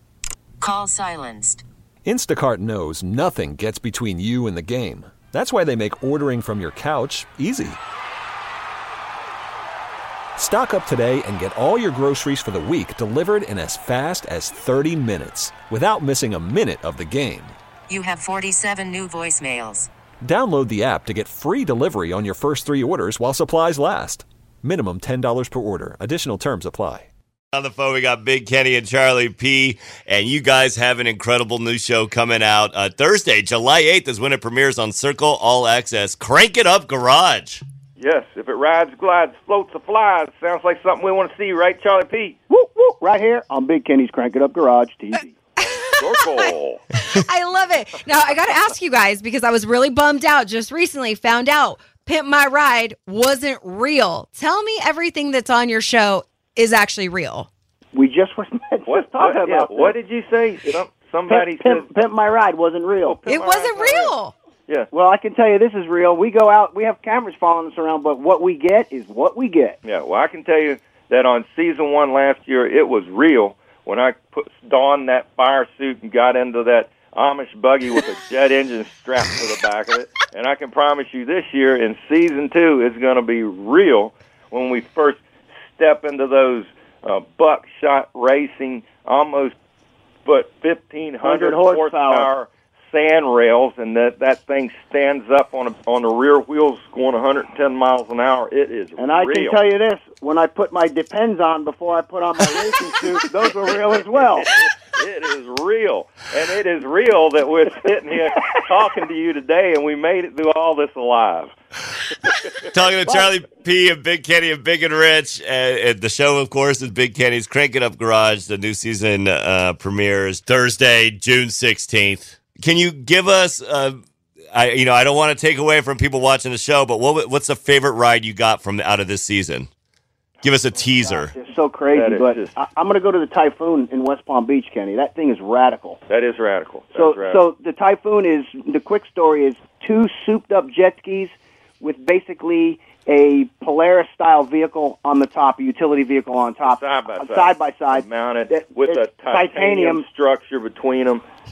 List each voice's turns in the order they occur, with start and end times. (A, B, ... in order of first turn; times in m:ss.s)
0:00.6-0:01.6 A
0:02.0-0:07.8 B
0:10.4-0:17.6 B
0:17.9-0:19.9 A
0:20.2-0:27.1 B
0:27.5-0:37.6 C
0:38.0-0:42.4 D
0:42.5-0:45.3 E
0:45.6-0:45.9 F
0:46.0-0:46.8 D
0:47.1-0:57.5 F
0:57.9-1:00.0 E
0:58.9-1:01.9 D
1:01.3-1:03.2 E
1:03.0-1:04.1 D
1:03.3-1:04.3 F
1:04.9-1:09.8 E
1:09.8-1:25.2 D
1:25.7-1:29.5 D
1:30.3-1:39.6 D
1:31.2-1:32.3 E
1:39.0-1:44.5 E
1:44.2-1:51.5 D
1:52.8-2:04.0 C
2:04.5-2:09.7 C
2:10.4-2:11.2 C
2:11.0-2:16.0 E
2:11.9-2:12.6 D
2:16.1-2:17.4 D
2:16.9-2:30.0 E
2:26.6-2:31.2 D